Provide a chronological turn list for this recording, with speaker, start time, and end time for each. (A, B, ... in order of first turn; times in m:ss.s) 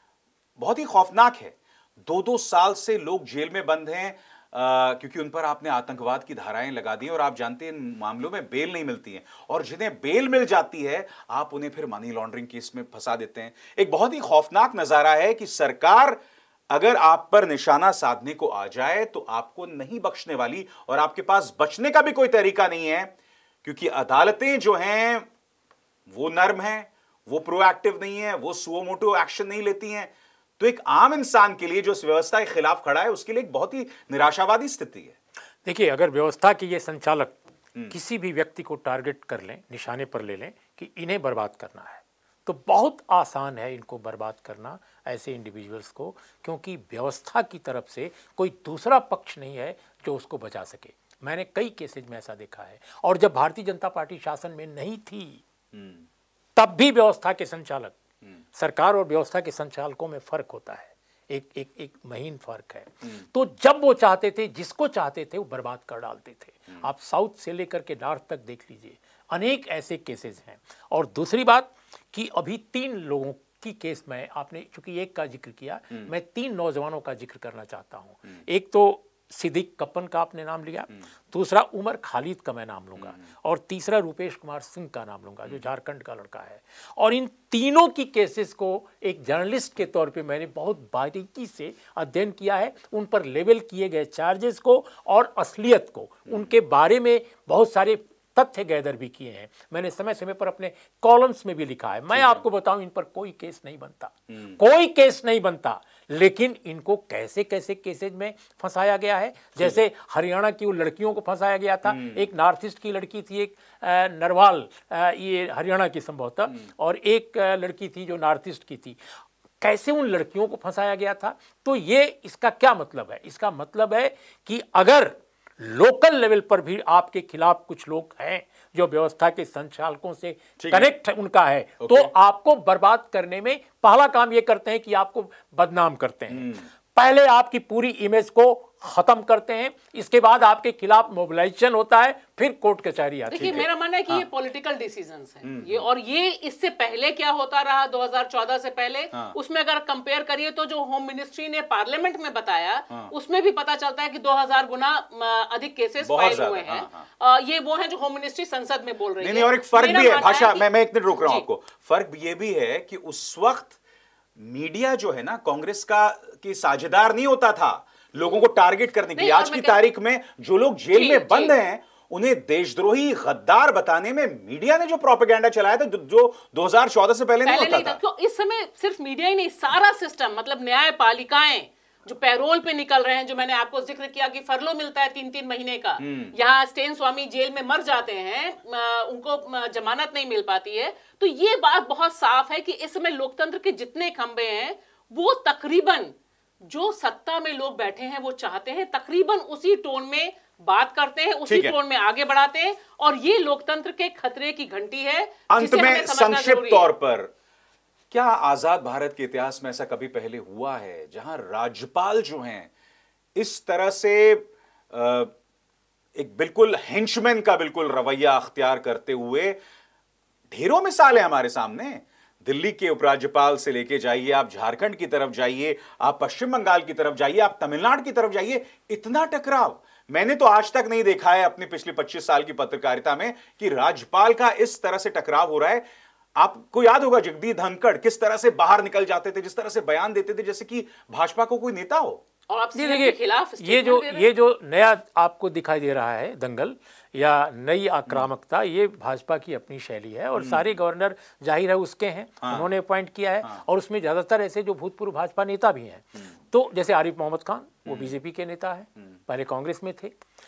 0:00.6-0:23.1 A
0:23.6-0:25.3 A
0:26.1-0:35.2 A
0:35.6-0:55.4 B
0:55.7-0:56.0 A
0:56.6-0:58.0 B
0:58.5-1:59.0 B
1:23.0-1:23.2 A
1:42.1-1:42.4 A
1:44.3-1:44.6 A
1:51.8-1:52.3 A
1:59.6-2:23.6 B
2:10.6-2:10.9 A
2:11.8-2:12.1 A
2:16.3-2:16.7 A
2:23.3-2:41.4 C
2:23.4-2:24.2 A
2:25.4-2:25.9 A
2:36.0-2:37.1 A
2:39.2-2:43.8 A
2:44.4-2:58.0 A
2:49.2-2:49.8 C
2:50.9-2:51.5 C
2:57.4-3:26.9 C
3:06.0-3:06.3 A
3:21.5-3:21.7 A
3:25.5-3:27.3 A
3:28.1-3:32.7 A
3:33.4-3:35.3 A
3:36.1-3:39.6 A
3:40.5-3:55.8 A
3:56.4-4:02.2 A
4:02.5-4:04.3 C
4:02.7-4:20.1 B
4:10.4-4:10.8 A
4:12.4-4:12.7 A
4:17.8-4:18.1 A